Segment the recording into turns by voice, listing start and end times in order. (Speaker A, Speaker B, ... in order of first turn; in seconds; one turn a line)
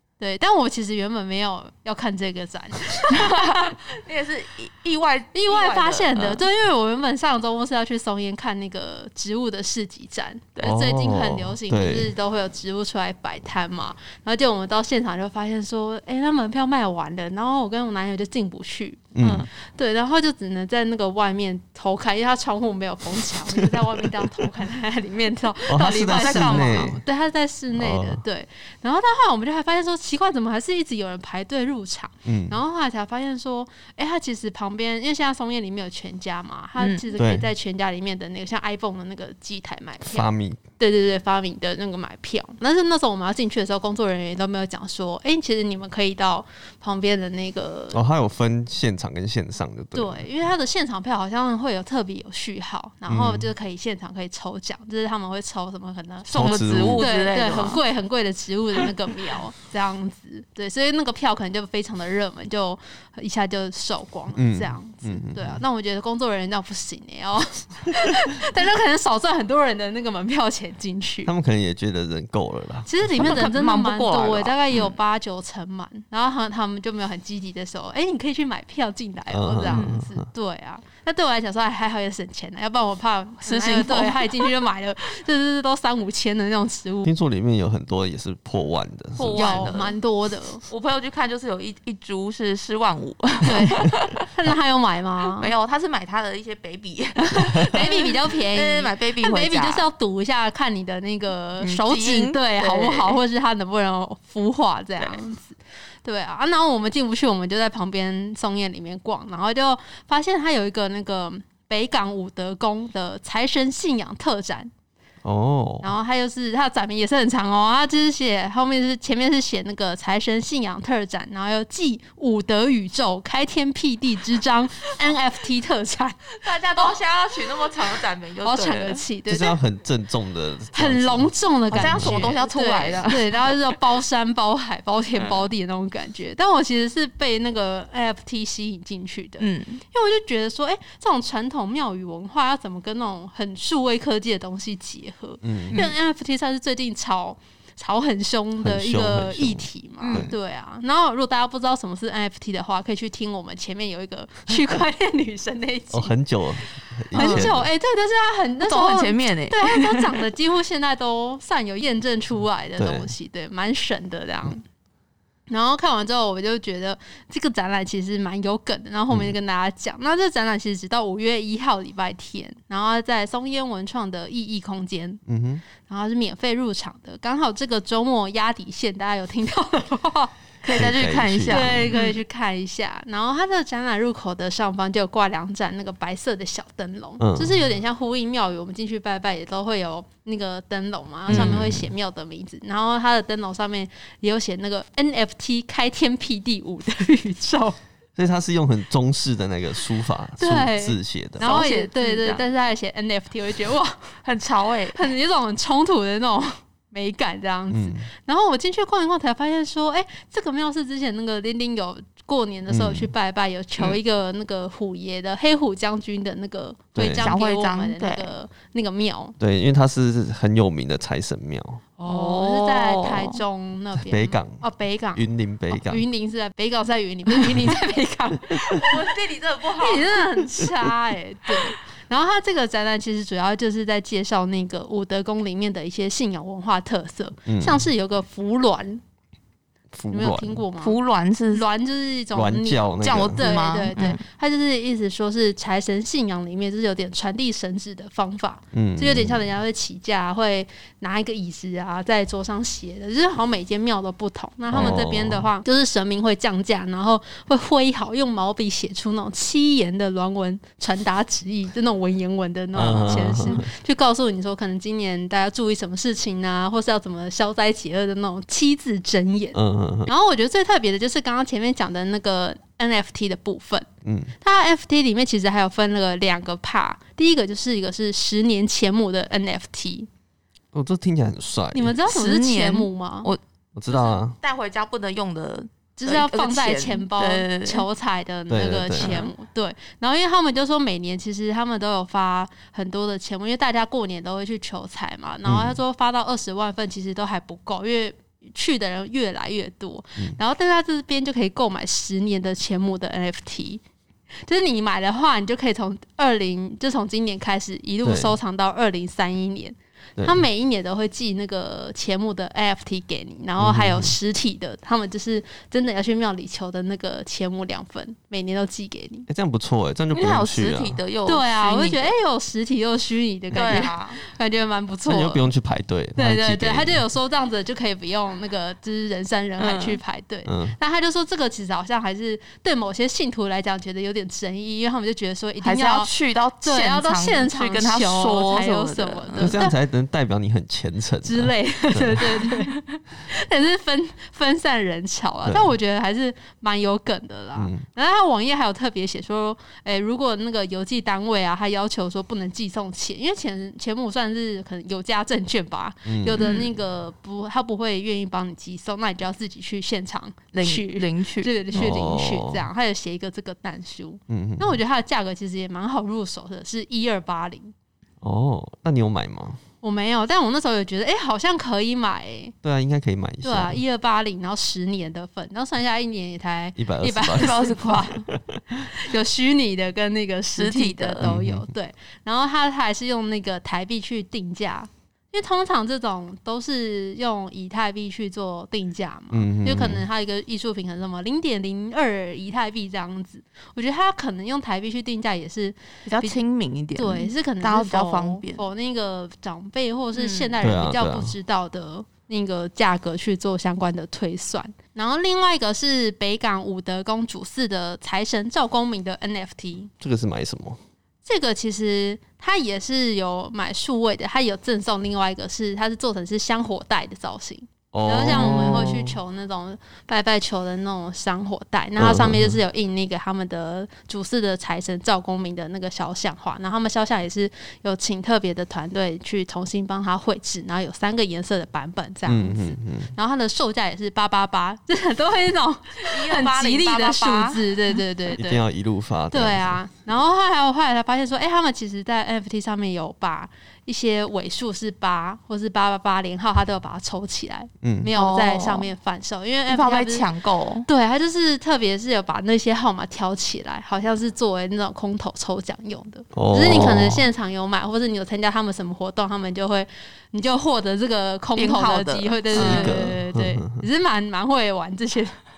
Speaker A: 0.2-3.8
Speaker B: 3.1-6.4
Speaker A: 5.3-48.0
Speaker C: 10.6-12.1
Speaker C: 19.1-19.5
Speaker B: 19.2-19.5
Speaker C: 23.6-24.1
Speaker C: 25.7-27.0
Speaker B: 26.1-27.0
Speaker C: 27.7-28.2
Speaker C: 32.2-32.6
Speaker B: 36.8-37.1
Speaker C: 37.2-37.5
Speaker C: 40.0-40.6
Speaker C: 47.9-50.3
Speaker A: 49.9-71.3
Speaker C: 53.1-53.5
Speaker B: 56.3-57.8
Speaker C: 56.3-57.1
Speaker C: 64.4-65.6
Speaker C: 71.3-73.4
Speaker A: 72.9-87.1
Speaker B: 73.2-74.6
Speaker C: 79.3-80.3
Speaker B: 79.7-80.0
Speaker B: 83.4-84.5
Speaker C: 87.0-89.8
Speaker B: 89.2-90.0
Speaker A: 89.3-90.6
Speaker B: 90.7-94.2
Speaker A: 93.5-95.5
Speaker B: 95.4-99.9
Speaker A: 97.2-114.7
Speaker B: 101.6-103.2
Speaker C: 115.2-115.9
Speaker A: 115.8-127.0
Speaker B: 126.4-129.0
Speaker A: 128.4-129.6
Speaker C: 129.3-132.4
Speaker A: 130.7-156.1
Speaker B: 131.7-133.5
Speaker B: 139.4-139.8
Speaker C: 145.4-145.9
Speaker C: 148.6-150.3
Speaker B: 150.0-150.3
Speaker C: 155.9-157.7
Speaker A: 157.1-164.6
Speaker B: 157.2-157.5
Speaker B: 158.6-160.2
Speaker C: 162.8-163.1
Speaker A: 165.5-175.2
Speaker C: 169.1-169.3
Speaker C: 175.3-175.6
Speaker A: 175.8-180.3
Speaker B: 180.6-182.2
Speaker C: 180.7-181.9
Speaker A: 181.5-197.8
Speaker C: 187.2-187.6
Speaker B: 191.3-191.7
Speaker C: 191.3-191.9
Speaker C: 198.2-201.6
Speaker A: 200.4-204.1
Speaker B: 201.4-202.4
Speaker B: 204.2-205.0
Speaker A: 204.9-219.3
Speaker C: 207.7-208.1
Speaker C: 212.7-213.1
Speaker C: 217.0-217.3
Speaker B: 217.2-218.3
Speaker C: 219.4-221.8
Speaker A: 222.0-228.9
Speaker B: 222.0-223.4
Speaker C: 224.1-224.6
Speaker C: 225.2-226.1
Speaker B: 228.7-230.2
Speaker A: 229.8-239.0
Speaker C: 237.5-237.9
Speaker C: 239.9-240.6
Speaker A: 240.1-241.0
Speaker B: 240.8-241.7
Speaker A: 241.5-273.9
Speaker C: 242.3-243.4
Speaker B: 243.0-244.2
Speaker C: 248.7-249.5
Speaker C: 254.7-255.5
Speaker C: 262.8-263.7
Speaker C: 269.5-270.1
Speaker C: 274.0-274.3
Speaker A: 274.4-280.1
Speaker C: 280.7-282.0
Speaker A: 281.7-283.3
Speaker B: 282.1-287.9
Speaker C: 283.8-284.4
Speaker A: 286.0-303.8
Speaker C: 288.5-289.2
Speaker B: 289.0-289.3
Speaker C: 295.4-295.8
Speaker A: 304.4-319.3
Speaker C: 308.0-308.4
Speaker C: 310.2-310.4
Speaker C: 313.6-314.1
Speaker C: 319.3-321.0
Speaker B: 320.1-322.1
Speaker A: 321.3-325.5
Speaker B: 323.5-324.2
Speaker C: 323.6-323.8
Speaker C: 325.1-327.0
Speaker A: 326.2-339.8
Speaker B: 329.6-330.0
Speaker C: 330.5-330.8
Speaker B: 335.6-339.6
Speaker C: 339.4-342.5
Speaker A: 341.2-367.7
Speaker C: 345.4-345.7
Speaker C: 347.6-347.9
Speaker C: 356.1-356.5
Speaker B: 356.4-356.7
Speaker B: 360.5-361.9
Speaker C: 361.7-362.7
Speaker C: 364.3-364.8
Speaker C: 368.2-369.6
Speaker A: 369.8-372.5
Speaker C: 372.6-373.8
Speaker A: 373.4-396.4
Speaker C: 376.8-377.6
Speaker B: 377.4-378.2
Speaker C: 378.3-378.6
Speaker B: 380.6-381.3
Speaker C: 381.2-381.7
Speaker C: 389.3-390.1
Speaker B: 396.1-398.6
Speaker A: 397.0-409.9
Speaker B: 400.1-400.6
Speaker C: 400.6-401.4
Speaker C: 410.0-410.8
Speaker A: 411.2-438.6
Speaker C: 417.9-419.2
Speaker C: 422.0-422.6
Speaker C: 432.3-433.1
Speaker B: 436.0-438.0
Speaker C: 438.4-439.8
Speaker A: 439.3-450.3
Speaker C: 447.8-448.1
Speaker B: 448.1-448.9
Speaker B: 449.7-450.9
Speaker A: 450.9-465.4
Speaker C: 456.3-457.3
Speaker B: 461.6-463.1
Speaker C: 462.5-463.8